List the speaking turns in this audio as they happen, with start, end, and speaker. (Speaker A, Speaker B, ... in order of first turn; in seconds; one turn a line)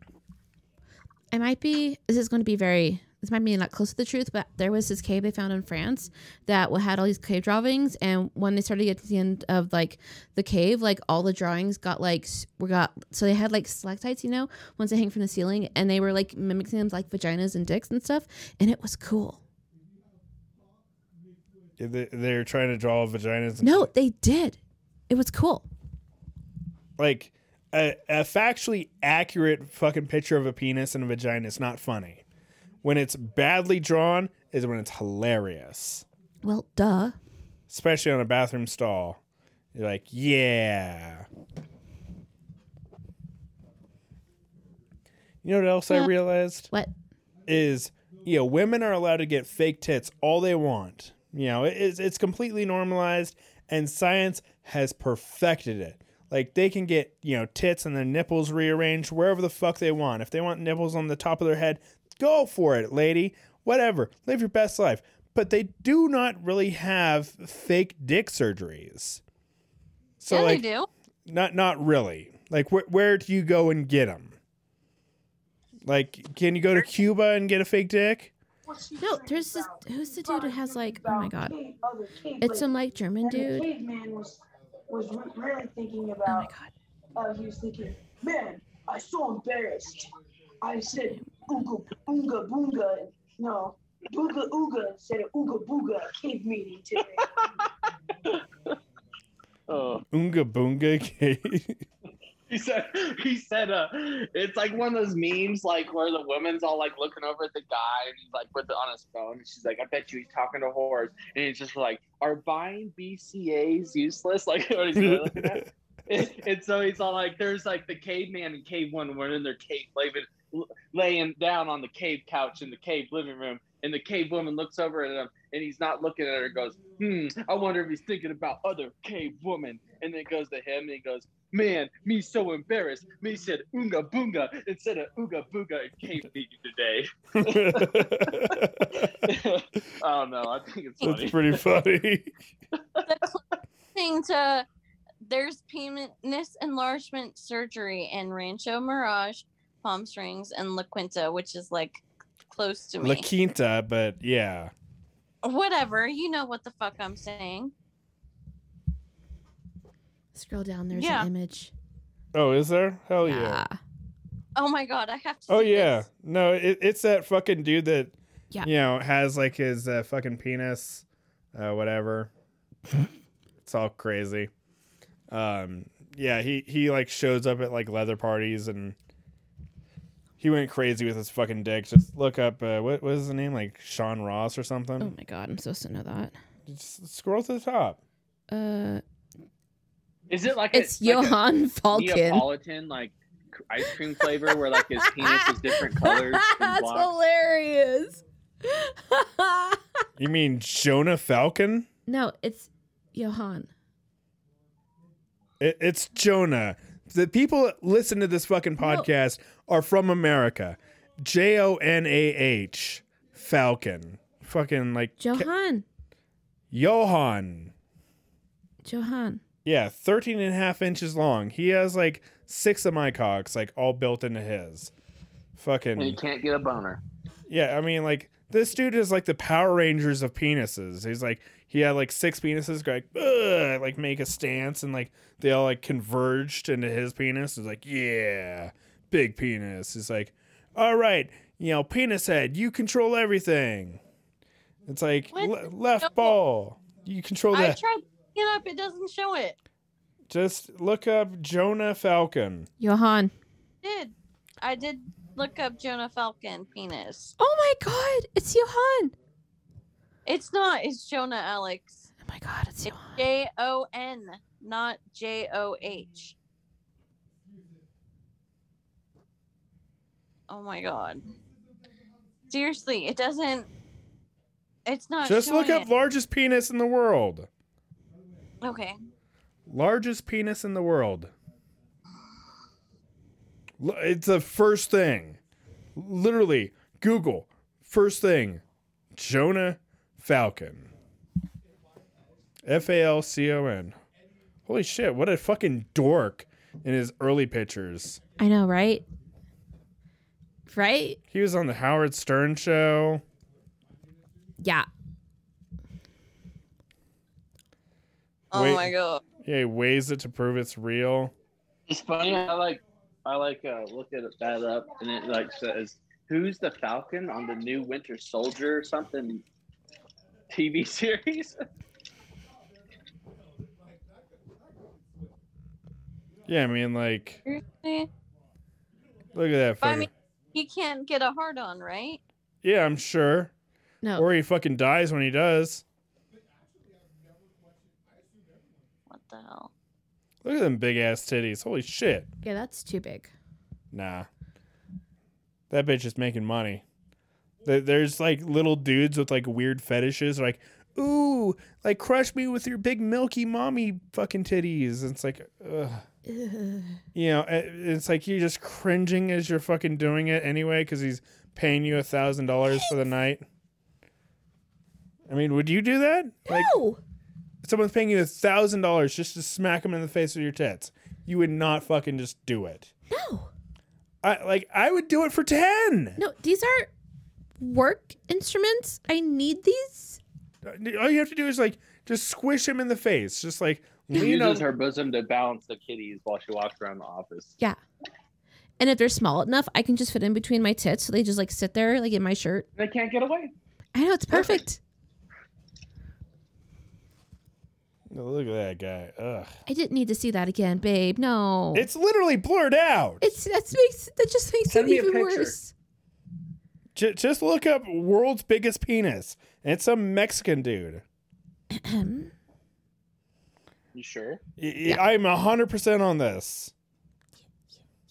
Speaker A: 1.3-19.4
Speaker B: 21.8-23.9
Speaker A: 23.6-24.6
Speaker A: 25.1-25.6
Speaker B: 27.0-32.2
Speaker B: 32.8-36.0
Speaker A: 36.4-37.2
Speaker B: 37.7-39.2
Speaker B: 39.7-41.3
Speaker B: 45.4-46.7
Speaker B: 47.5-69.2
Speaker B: 70.2-70.6
Speaker C: 70.3-70.9
Speaker B: 71.2-74.4
Speaker B: 75.8-78.3
Speaker D: 78.6-82.7
Speaker A: 79.0-81.5
Speaker A: 82.4-83.7
Speaker D: 83.2-86.5
Speaker A: 86.3-86.7
Speaker D: 87.1-97.3
Speaker E: 97.2-97.7
Speaker E: 99.7-100.0
Speaker B: 100.1-101.8
Speaker E: 102.5-141.6
Speaker B: 115.0-115.7
Speaker B: 137.3-139.3
Speaker B: 141.0-142.3
Speaker C: 143.0-143.4
Speaker C: 143.9-144.7
Speaker C: 145.2-153.2
Speaker B: 153.0-154.7
Speaker C: 155.4-157.7
Speaker A: 160.3-161.7
Speaker C: 160.9-161.3
Speaker B: 162.3-163.6
Speaker A: 163.2-163.8
Speaker C: 164.6-166.0
Speaker B: 165.5-172.3
Speaker B: 173.6-174.5
Speaker B: 175.3-178.9
Speaker B: 180.4-185.1
Speaker A: 185.0-186.3
Speaker B: 186.7-188.0
Speaker A: 188.5-189.0
Speaker E: 190.3-197.1
Speaker A: 190.7-192.5
Speaker A: 193.8-199.8
Speaker B: 200.2-201.9
Speaker A: 202.1-203.7
Speaker B: 205.6-215.5
Speaker A: 208.8-209.1
Speaker A: 215.2-215.8
Speaker B: 216.7-217.7
Speaker A: 218.8-219.4
Speaker B: 219.6-224.9
Speaker B: 225.6-226.2
Speaker E: 226.0-227.0
Speaker B: 227.5-244.0
Speaker B: 244.8-247.8
Speaker C: 245.3-246.3
Speaker C: 247.5-249.6
Speaker B: 250.3-252.7
Speaker A: 252.8-253.3
Speaker C: 253.8-257.3
Speaker A: 257.4-259.1
Speaker C: 260.2-262.1
Speaker A: 262.2-263.2
Speaker C: 262.9-266.3
Speaker C: 270.5-271.3
Speaker C: 272.5-273.7
Speaker C: 274.9-275.9
Speaker B: 275.2-277.5
Speaker C: 278.6-279.0
Speaker B: 279.7-281.3
Speaker B: 283.8-285.4
Speaker B: 285.9-288.6
Speaker B: 289.1-290.9
Speaker B: 292.6-294.0
Speaker B: 294.7-298.2
Speaker A: 298.4-299.0
Speaker A: 300.7-301.2
Speaker B: 301.3-303.2
Speaker A: 304.6-304.9
Speaker C: 308.5-309.2
Speaker B: 308.5-308.9
Speaker B: 309.4-311.3
Speaker E: 311.9-319.4
Speaker E: 320.5-321.6
Speaker B: 326.5-327.4
Speaker C: 327.5-328.1
Speaker B: 329.3-330.1
Speaker C: 329.8-332.2
Speaker B: 332.6-333.5
Speaker A: 334.0-334.3
Speaker B: 334.1-335.8
Speaker C: 339.1-339.7
Speaker B: 340.4-342.3
Speaker A: 342.4-343.3
Speaker B: 343.9-344.3
Speaker B: 345.7-346.8
Speaker B: 347.6-356.0
Speaker A: 356.2-357.0
Speaker B: 357.1-363.4
Speaker B: 365.3-366.7
Speaker A: 366.5-367.0
Speaker B: 367.6-372.9
Speaker A: 373.1-373.5
Speaker B: 374.2-376.2
Speaker A: 376.2-376.9
Speaker A: 377.6-380.2
Speaker B: 380.6-384.6
Speaker E: 384.1-387.5
Speaker A: 388.8-392.7
Speaker E: 392.8-393.5
Speaker A: 393.9-394.8
Speaker E: 394.3-394.6
Speaker B: 398.1-399.5
Speaker A: 399.6-401.9
Speaker B: 401.7-403.2
Speaker A: 403.2-405.7
Speaker E: 404.7-405.5
Speaker B: 406.9-411.0
Speaker A: 411.7-412.3
Speaker E: 413.9-414.4
Speaker B: 414.6-416.7